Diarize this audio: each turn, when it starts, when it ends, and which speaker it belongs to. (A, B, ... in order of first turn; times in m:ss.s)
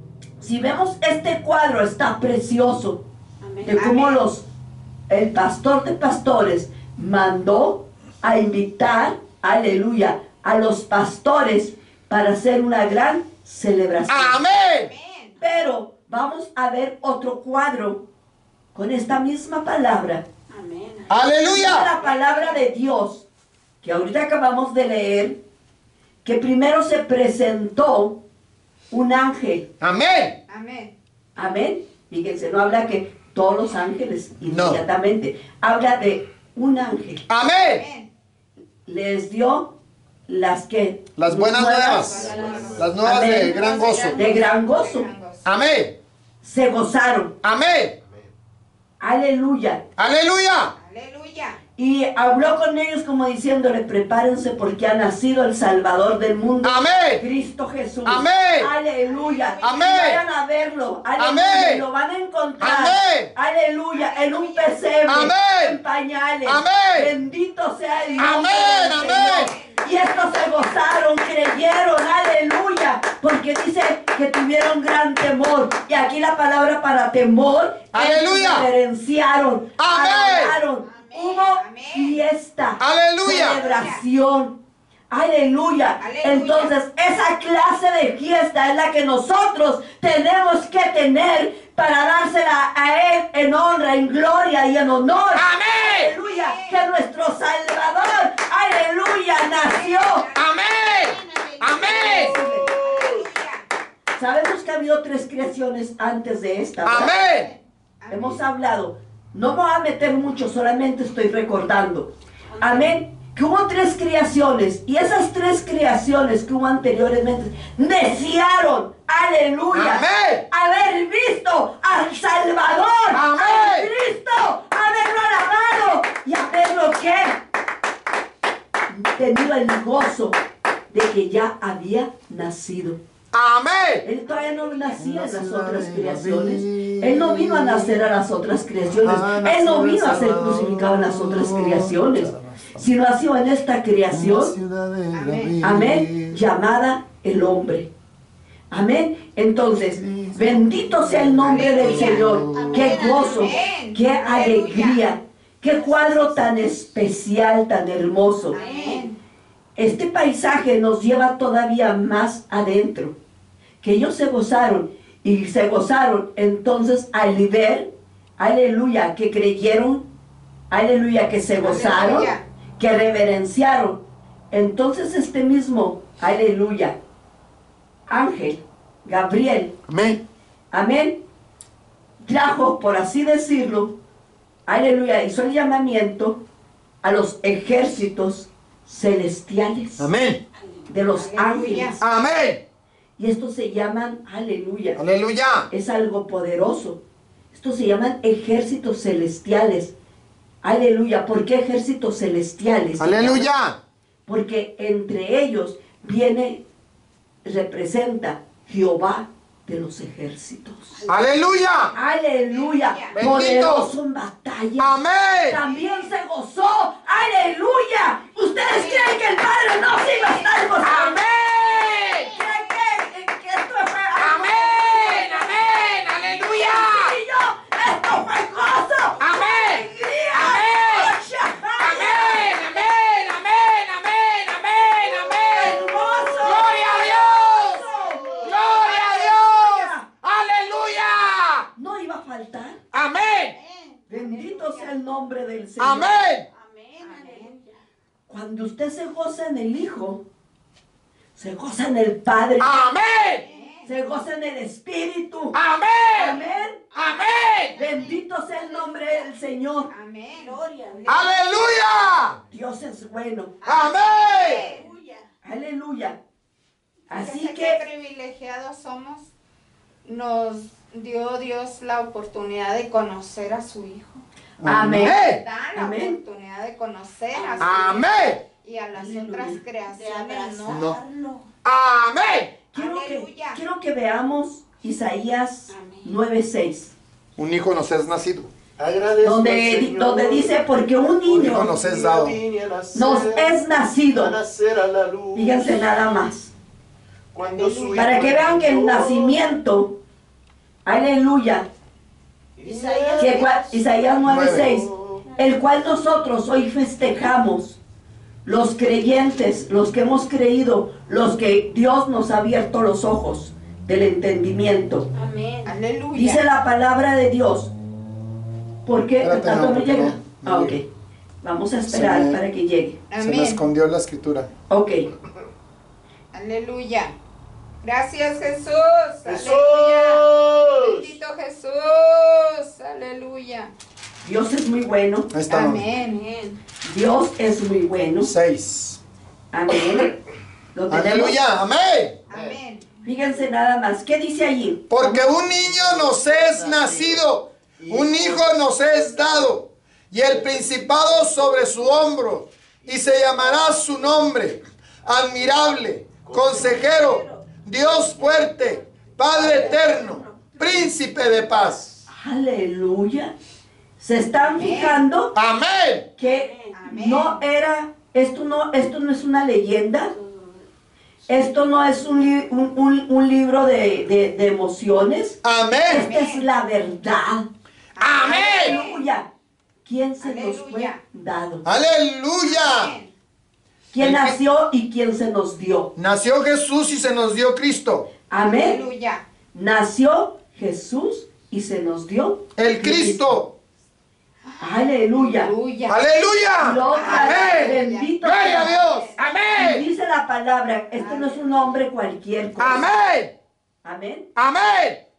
0:00.4-0:03.0 A
0:03.4-0:03.8 B
0:03.6-0:04.4 A
0:03.8-0:04.2 C
0:05.1-0:14.4 A
0:14.1-0:14.9 D
0:14.7-0:15.4 C
0:15.4-0:18.0 A
0:18.7-0:20.2 A
0:20.5-0:21.2 B
0:21.1-0:21.9 D
0:21.4-0:23.2 A
0:22.0-0:22.6 C
0:23.8-0:25.4 A
0:26.2-0:28.2 A
0:28.9-0:29.7 A
0:29.8-0:30.4 D
0:30.5-0:30.9 C
0:31.4-0:37.2 A
0:34.4-0:34.8 D
0:37.3-0:37.8 D
0:37.6-0:38.1 C
0:38.8-0:39.7 A
0:40.3-0:42.2 A
0:41.2-0:42.2 D
0:42.0-0:42.9 B
0:42.0-0:45.5 C
0:42.0-0:43.0 E
0:42.7-0:44.2 D
0:43.0-0:43.6 A
0:44.1-0:45.1 A
0:45.4-0:45.9 D
0:46.4-0:47.3 A
0:47.4-0:47.9 D
0:48.0-0:48.3 E
0:49.0-0:49.8 A
0:50.0-0:50.7 D
0:50.8-0:51.6 C
0:51.8-1:24.6 A
0:56.6-0:57.2 D
0:58.0-0:58.7 D
0:59.0-1:00.2 C
0:59.6-1:00.2 D
1:01.2-1:01.8 D
1:02.6-1:03.3 D
1:03.9-1:04.8 C
1:05.1-1:05.8 D
1:06.4-1:07.1 D
1:08.0-1:10.8 C
1:08.2-1:09.5 D
1:17.9-1:18.7 D
1:19.8-1:20.6 D
1:20.8-1:21.2 B
1:21.1-1:22.2 C
1:22.8-1:23.6 D
1:23.3-1:24.0 C
1:25.1-1:40.3 A
1:26.0-1:26.7 C
1:35.3-1:36.1 D
1:35.8-1:36.8 C
1:39.4-1:41.2 C
1:40.3-1:42.3 D
1:41.0-1:42.4 B
1:41.8-1:43.6 C
1:42.1-1:43.2 E
1:42.1-1:42.7 A
1:44.2-1:47.1 A
1:46.8-1:47.5 D
1:47.2-1:47.6 B
1:48.0-1:48.4 C
1:48.1-2:07.4 A
1:52.5-1:52.9 B
1:59.7-2:00.4 D
2:03.1-2:03.9 D
2:08.9-2:10.4 A
2:10.9-2:13.0 A
2:13.3-2:14.0 D
2:14.0-2:24.6 A
2:15.0-2:18.0 D
2:19.0-2:22.8 D
2:24.1-2:26.4 D
2:25.1-2:25.6 C
2:25.6-2:27.9 A
2:28.7-2:38.6 A
2:29.9-2:33.0 D
2:31.4-2:32.4 C
2:32.1-2:33.7 B
2:33.1-2:35.1 C
2:35.7-2:36.6 B
2:38.5-2:39.1 B
2:38.5-2:39.2 C
2:39.8-2:43.1 A
2:43.8-2:50.0 A
2:50.7-2:57.0 A
2:51.6-2:52.4 C
2:58.1-2:59.7 A
2:59.9-3:00.2 D
3:00.7-3:01.2 A
3:02.2-3:03.9 A
3:04.7-3:06.4 A
3:07.0-3:10.1 A
3:10.0-3:10.4 D
3:10.5-3:11.0 B
3:10.9-3:12.0 A
3:11.1-3:12.0 C
3:12.0-3:12.6 D
3:13.2-3:15.0 A
3:15.0-3:15.7 D
3:15.7-3:17.0 A
3:17.5-3:19.9 A
3:20.6-3:23.5 A
3:23.0-3:23.8 D
3:24.3-3:26.6 A
3:27.4-3:31.0 A
3:31.1-3:31.9 D
3:32.0-3:35.0 A
3:32.5-3:33.2 C
3:33.1-3:33.9 D
3:34.8-3:35.6 D
3:35.5-3:41.2 A
3:35.7-3:36.1 C
3:38.7-3:39.3 C
3:39.8-3:40.7 C
3:40.8-3:42.3 D
3:41.6-3:43.0 C
3:42.2-3:45.4 A
3:44.2-3:47.2 D
3:44.8-3:45.6 C
3:46.5-3:52.9 A
3:49.2-3:51.2 D
3:51.8-4:01.6 D
3:55.5-4:00.0 A
3:55.5-3:56.6 E
3:57.7-3:58.3 B
3:58.0-3:58.6 E
3:58.1-3:58.4 C
4:01.8-4:02.8 A
4:02.9-4:03.5 D
4:03.4-4:04.9 B
4:04.1-4:06.1 A
4:05.8-4:06.4 D
4:06.5-4:07.8 B
4:07.0-4:07.6 C
4:08.3-4:10.2 A
4:11.3-4:12.7 A
4:12.6-4:13.4 D
4:13.4-4:13.7 B
4:13.5-4:13.9 C
4:13.8-4:15.6 A
4:15.5-4:16.4 D
4:16.1-4:16.8 A
4:16.3-4:19.3 B
4:16.9-4:17.7 D
4:17.8-4:19.9 A
4:19.9-4:20.6 C
4:20.3-4:21.4 B
4:21.1-4:22.4 D
4:22.5-4:23.5 A
4:23.6-4:25.3 B
4:23.6-4:24.6 D
4:24.2-4:24.8 C
4:25.4-4:26.2 A
4:27.1-4:27.8 A
4:27.2-4:29.3 C
4:30.0-4:34.2 C
4:34.6-4:35.4 D
4:34.6-4:35.2 A
4:34.9-4:40.8 C
4:35.7-4:36.2 A
4:37.3-4:37.7 B
4:37.6-4:38.4 D
4:38.9-4:39.6 A
4:39.9-4:41.5 B
4:40.7-4:41.0 D
4:41.6-4:42.5 D
4:42.7-4:46.9 A
4:42.7-4:43.6 C
4:45.7-4:46.2 B
4:47.4-4:48.5 D
4:48.8-4:50.6 E
4:49.2-4:51.7 A
4:51.3-4:53.6 E
4:51.3-4:52.4 D
4:52.9-4:54.4 A
4:54.1-4:56.0 E
4:55.3-4:56.5 A
4:57.3-4:59.4 E
4:57.4-4:57.8 C
4:57.5-4:57.9 B
4:57.9-4:59.9 A
5:00.8-5:01.7 A
5:02.6-5:05.2 E
5:02.6-5:07.8 A
5:02.9-5:03.4 B
5:04.2-5:04.7 D
5:08.4-5:15.1 A
5:15.1-5:15.7 B
5:15.6-5:16.4 C
5:16.1-5:17.7 A
5:18.8-5:20.8 A
5:19.2-5:20.8 D
5:21.4-5:23.0 A
5:21.9-5:22.4 D
5:23.1-5:23.6 C
5:23.2-5:24.5 D
5:24.7-5:25.0 A
5:26.3-5:27.2 C
5:27.8-5:33.7 C
5:29.2-5:31.1 E
5:34.2-5:35.3 A
5:35.3-5:35.8 D
5:35.5-5:36.2 C
5:35.8-5:36.6 B
5:36.8-5:38.3 A
5:38.2-5:39.0 D
5:39.5-5:40.2 A
5:40.7-5:41.4 A
5:40.9-5:42.2 D
5:42.3-5:42.8 C
5:42.3-5:42.6 E
5:43.0-5:45.4 A
5:44.9-6:01.9 D
5:45.4-5:47.2 E
5:47.8-5:49.6 E
5:50.2-5:52.2 E
5:52.8-5:54.3 E
5:55.1-5:57.2 E
5:56.5-5:57.6 B
5:57.8-6:00.0 E
5:59.3-6:01.8 B
6:02.1-6:03.3 A
6:04.0-6:05.3 A
6:04.4-6:05.0 C
6:05.3-6:06.1 D
6:06.2-6:10.1 A
6:06.2-6:07.3 B
6:06.8-6:07.4 C
6:10.1-6:10.6 B
6:11.3-6:17.5 A
6:15.4-6:16.1 D
6:15.9-6:16.5 C
6:18.0-6:19.0 C
6:18.0-6:18.8 D
6:18.4-6:19.3 A
6:19.8-6:21.6 A
6:20.2-6:21.0 C
6:21.6-6:22.9 D
6:22.4-6:23.1 C
6:23.9-6:25.9 A
6:24.0-6:24.4 D
6:26.0-6:28.0 D
6:28.3-6:28.8 A
6:28.5-6:29.2 C
6:29.5-6:33.3 A
6:32.6-6:33.5 D
6:34.5-6:36.0 C
6:34.6-6:35.5 A
6:35.9-6:39.8 D
6:36.6-6:38.7 A
6:36.9-6:39.3 C
6:39.5-6:42.9 A
6:41.0-6:41.4 C
6:42.6-6:43.3 D
6:43.8-6:44.3 A
6:44.4-6:45.0 D